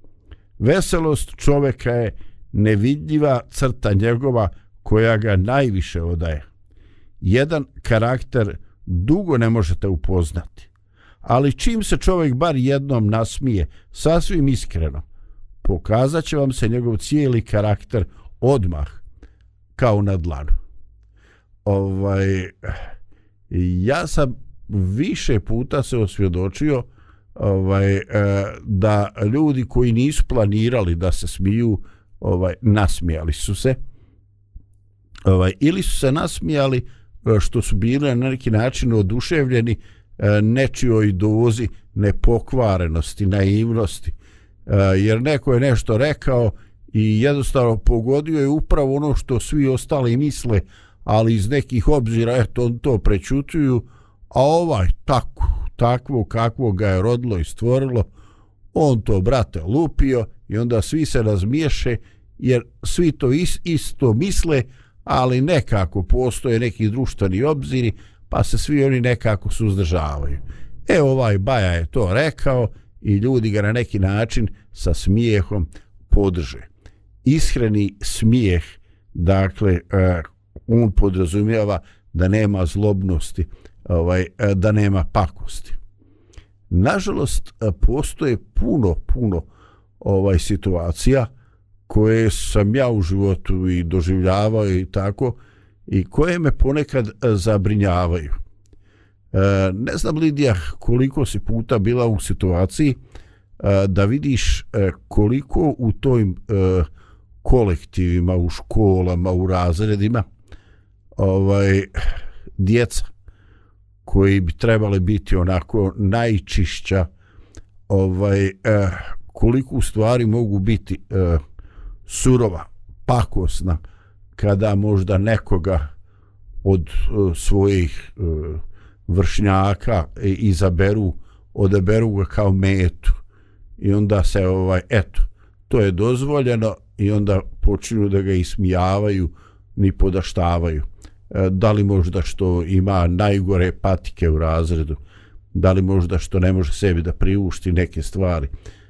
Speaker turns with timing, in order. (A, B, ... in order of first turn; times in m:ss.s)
0:00.6-0:06.4 A
0:07.2-0:10.7 A
0:11.2-0:15.0 A
0:15.6-0:19.0 A
0:19.8-0:20.5 A
0:21.6-0:22.9 A
0:23.5-0:33.8 A
0:35.2-0:44.1 A
0:44.7-0:58.1 A
0:58.7-1:16.7 A
1:17.2-1:25.8 A
1:26.7-1:29.5 A
1:30.0-1:31.3 A
1:31.9-1:38.4 A
1:39.3-1:43.0 A
1:43.6-1:46.9 A
1:47.4-1:50.2 A
1:51.2-1:53.1 A
1:54.0-1:57.1 A
1:57.9-2:01.4 A
2:02.0-2:03.8 A
2:04.4-2:05.9 A
2:06.6-2:13.2 A
2:13.8-2:25.0 A
2:25.5-2:28.5 A